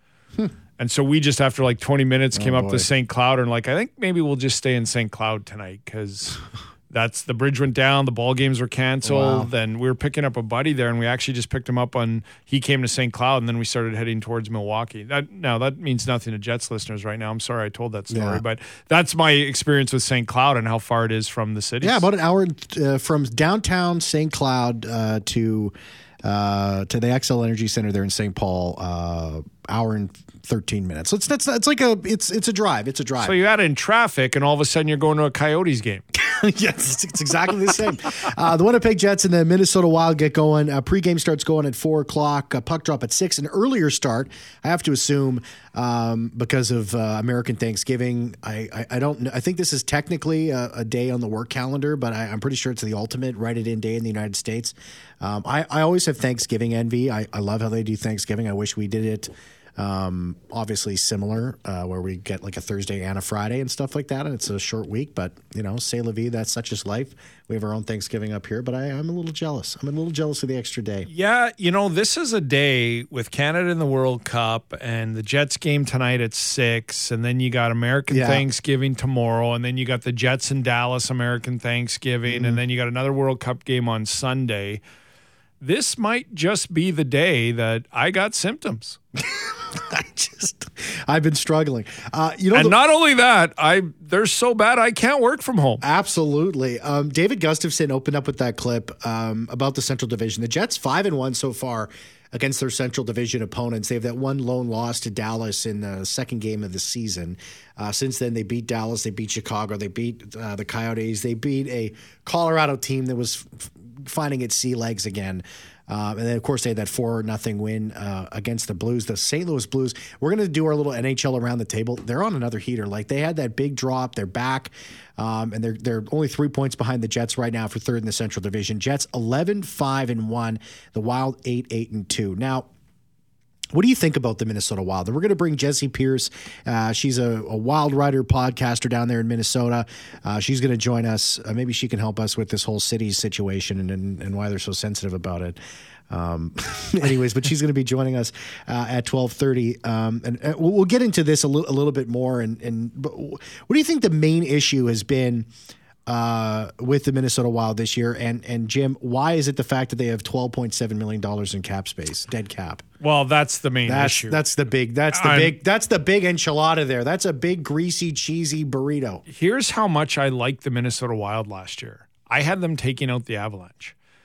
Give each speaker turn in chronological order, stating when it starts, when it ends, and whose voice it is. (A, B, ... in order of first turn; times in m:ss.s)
0:00.8-0:22.1 A
0:02.3-0:02.9 B
0:09.0-0:09.5 B
0:18.1-0:18.4 B
0:21.8-0:33.4 B
0:33.2-0:36.0 A
0:36.1-1:11.1 B
1:11.1-1:24.8 A
1:18.1-1:18.4 B
1:22.2-1:22.6 B
1:25.6-1:29.0 A
1:29.2-1:32.8 B
1:32.5-1:35.8 A
1:35.8-2:12.7 B
2:13.7-2:35.5 B
2:36.0-2:42.8 B
2:43.0-2:44.4 A
2:43.8-2:49.2 B
2:45.1-2:45.6 A
2:49.3-2:53.9 A